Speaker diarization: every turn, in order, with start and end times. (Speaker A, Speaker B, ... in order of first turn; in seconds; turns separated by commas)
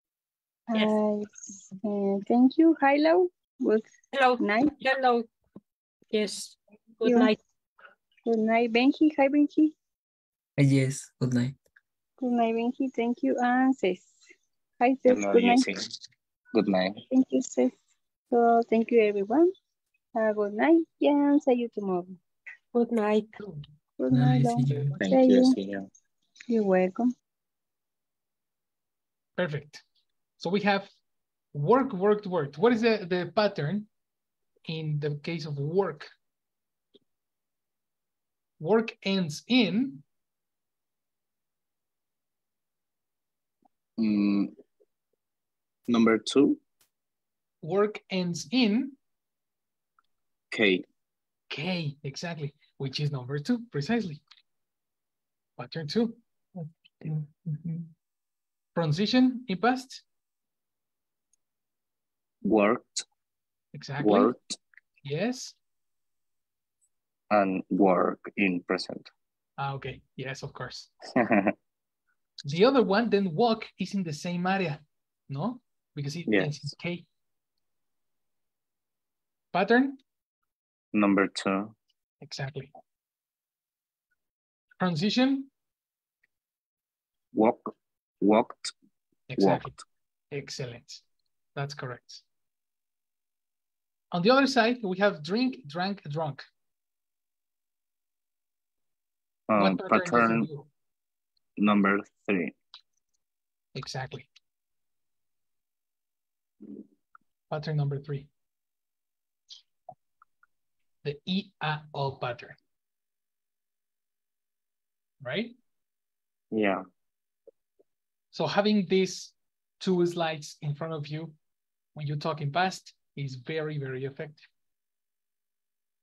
Speaker A: 0.7-4.7, Speaker B: 4.1-5.3, Speaker B: 6.1-7.4, Speaker A: 8.2-9.7, Speaker C: 10.6-11.6, Speaker A: 12.2-14.1, Speaker A: 14.8-15.7, Speaker D: 15.1-15.9, Speaker D: 16.5-17.0, Speaker A: 17.1-17.8, Speaker A: 18.3-19.5, Speaker A: 20.1-22.2, Speaker B: 22.7-23.4, Speaker A: 24.0-25.6, Speaker C: 24.1-24.9, Speaker D: 25.0-25.9, Speaker A: 26.5-27.1, Speaker E: 29.4-29.8, Speaker E: 30.4-30.9, Speaker E: 31.5-33.9, Speaker E: 34.7-36.1, Speaker E: 38.6-40.0, Speaker D: 44.0-44.5, Speaker D: 45.9-46.6, Speaker E: 47.6-49.0, Speaker D: 50.5-50.9, Speaker E: 51.5-54.2, Speaker E: 55.6-56.2, Speaker C: 56.5-57.9, Speaker E: 58.8-60.0, Speaker D: 62.4-63.0, Speaker E: 63.7-64.3, Speaker D: 64.0-64.6, Speaker E: 65.0-65.6, Speaker D: 67.3-69.1, Speaker E: 69.6-70.9, Speaker D: 71.2-71.5, Speaker E: 72.5-77.1, Speaker D: 76.3-76.5, Speaker E: 79.5-80.0, Speaker D: 80.9-81.8, Speaker E: 82.2-82.7, Speaker E: 84.8-85.5, Speaker D: 87.3-88.7, Speaker E: 89.3-89.8, Speaker D: 89.4-89.7, Speaker E: 90.3-91.0, Speaker E: 91.5-92.2, Speaker E: 94.1-96.5, Speaker D: 99.5-100.5, Speaker E: 99.6-100.7, Speaker D: 101.6-102.6, Speaker E: 103.8-104.3, Speaker E: 107.5-108.3, Speaker E: 111.0-112.6, Speaker E: 115.2-115.5, Speaker D: 116.5-116.8, Speaker E: 118.3-121.4, Speaker E: 122.0-124.5